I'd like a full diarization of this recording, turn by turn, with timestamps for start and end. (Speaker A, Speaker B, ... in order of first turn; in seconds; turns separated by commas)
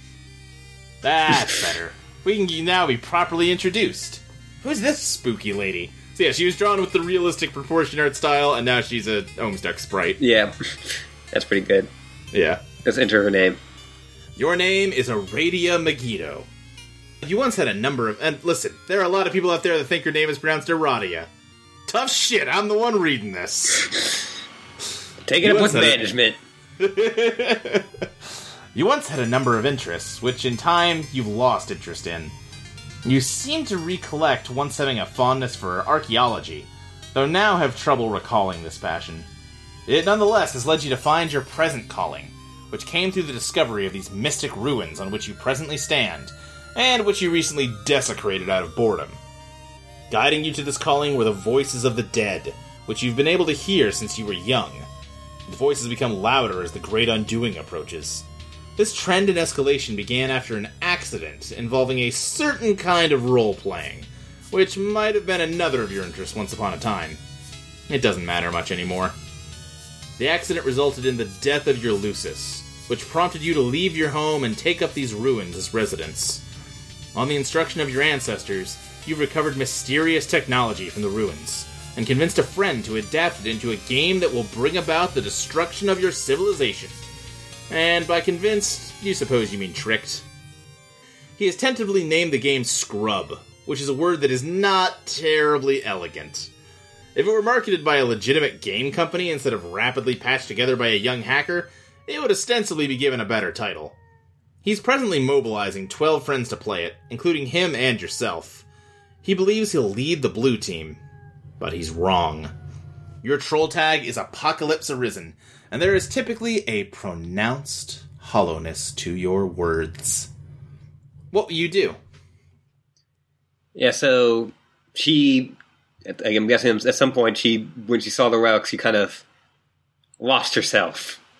Speaker A: 1.0-10.2, Speaker B: 1.4-1.6, Speaker B: 10.2-11.9, Speaker A: 12.3-12.6, Speaker B: 12.8-13.6, Speaker A: 14.3-16.5, Speaker A: 17.2-21.3, Speaker A: 21.9-23.9, Speaker B: 25.2-26.4, Speaker A: 25.4-26.0, Speaker A: 26.8-28.1, Speaker A: 28.7-32.3, Speaker A: 33.0-39.3, Speaker A: 39.9-49.2, Speaker A: 50.1-54.9, Speaker A: 55.5-58.2, Speaker A: 58.8-67.2, Speaker A: 67.9-69.1, Speaker A: 70.2-76.4, Speaker A: 77.1-87.0, Speaker A: 87.7-90.2, Speaker A: 91.4-96.5, Speaker A: 97.1-104.0, Speaker A: 104.6-108.6, Speaker A: 109.2-111.0, Speaker A: 111.6-112.5, Speaker A: 113.2-120.3, Speaker A: 121.3-122.0, Speaker B: 123.8-129.2, Speaker B: 130.2-131.2